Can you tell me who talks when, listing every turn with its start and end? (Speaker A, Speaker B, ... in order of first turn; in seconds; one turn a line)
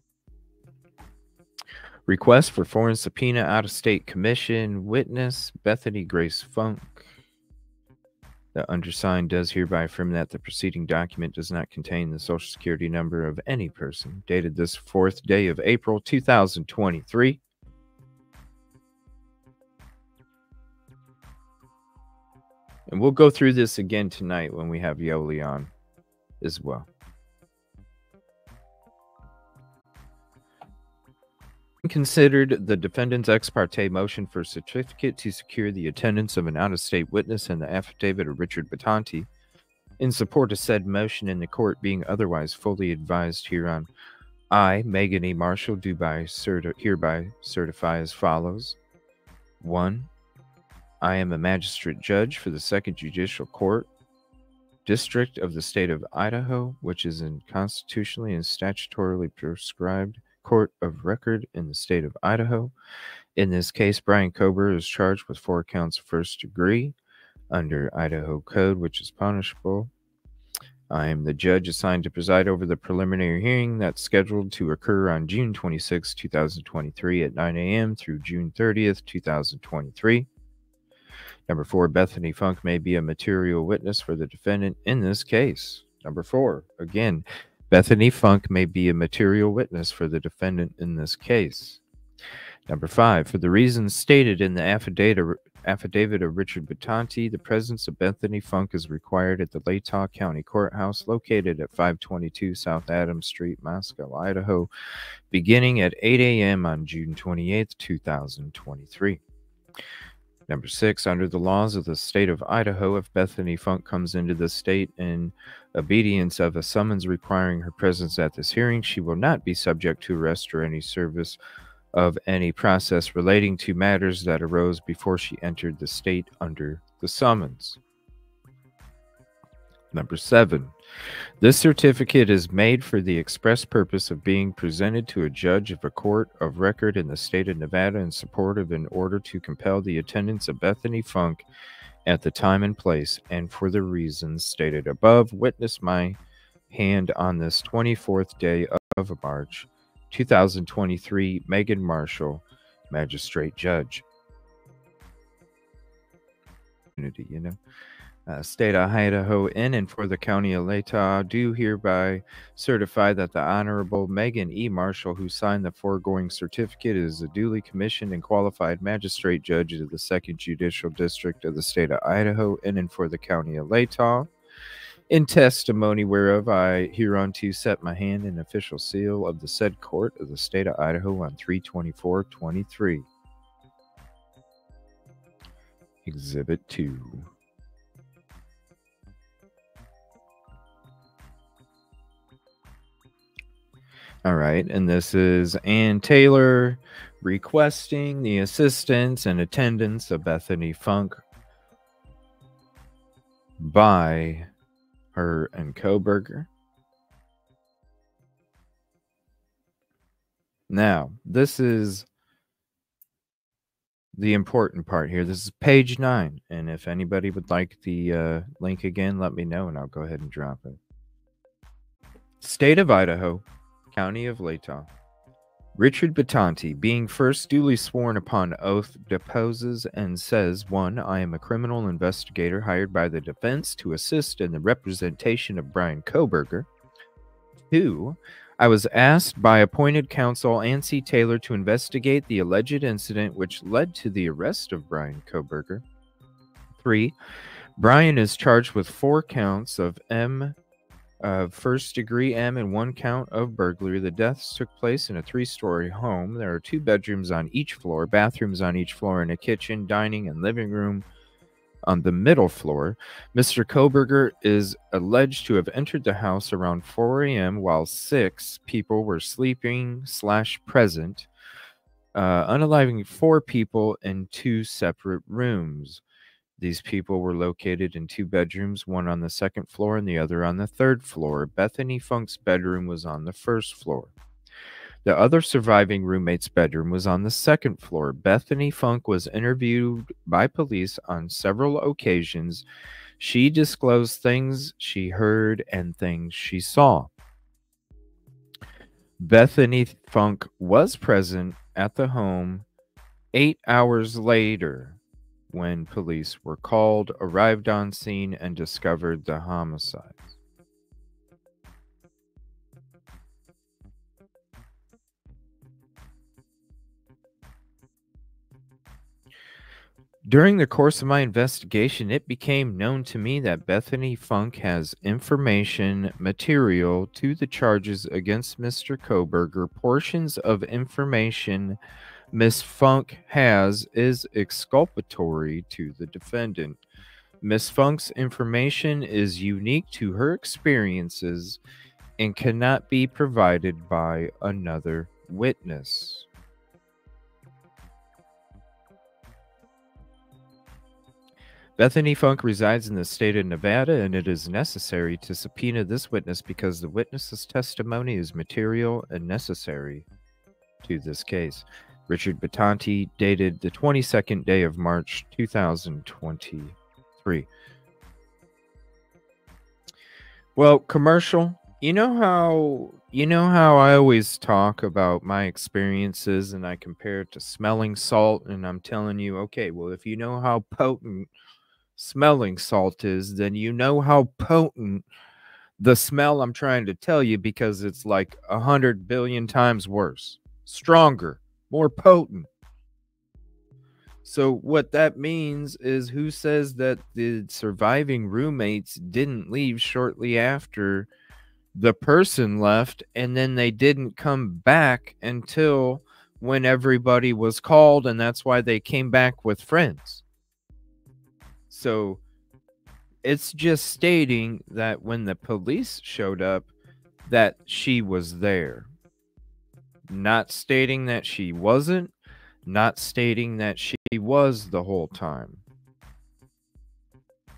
Speaker A: 2.1-7.1
Speaker A: 8.5-17.4
Speaker A: 22.9-25.7
Speaker A: 26.4-26.9
Speaker A: 31.8-39.3
Speaker A: 40.0-43.9
Speaker A: 44.5-48.8
Speaker A: 49.6-50.1
Speaker A: 51.0-53.9
Speaker A: 54.8-62.7
Speaker A: 63.4-67.0
Speaker A: 67.5-69.9
Speaker A: 70.9-80.3
Speaker A: 81.5-91.8
Speaker A: 92.7-104.7
Speaker A: 105.3-109.2
Speaker A: 110.5-121.4
Speaker A: 121.9-127.8
Speaker A: 129.9-130.7
Speaker A: 131.4-141.4
Speaker A: 142.0-146.2
Speaker A: 146.7-154.0
Speaker A: 157.0-157.6
Speaker A: 158.2-174.3
Speaker A: 175.1-183.1
Speaker A: 186.0-187.3
Speaker A: 194.2-201.2
Speaker A: 203.6-204.5
Speaker A: 205.1-206.5
Speaker A: 210.7-212.1
Speaker A: 214.1-220.8
Speaker A: 222.4-224.9
Speaker A: 225.7-236.7
Speaker A: 237.7-245.8
Speaker A: 246.8-247.2
Speaker A: 247.8-250.6
Speaker A: 251.2-261.0
Speaker A: 261.8-271.3
Speaker A: 272.1-276.0
Speaker A: 276.6-284.1
Speaker A: 285.0-292.6
Speaker A: 293.2-297.1
Speaker A: 299.2-302.6
Speaker A: 303.3-305.0
Speaker A: 305.5-310.3
Speaker A: 320.2-331.8
Speaker A: 332.3-336.8
Speaker A: 337.4-341.6
Speaker A: 342.2-346.3
Speaker A: 351.8-360.1
Speaker A: 360.8-367.5
Speaker A: 370.6-381.3
Speaker A: 381.9-385.0
Speaker A: 385.8-392.5
Speaker A: 394.2-401.1
Speaker A: 401.7-410.2
Speaker A: 411.7-412.2
Speaker A: 413.2-416.7
Speaker A: 417.2-418.9
Speaker A: 420.1-422.1
Speaker A: 422.6-425.6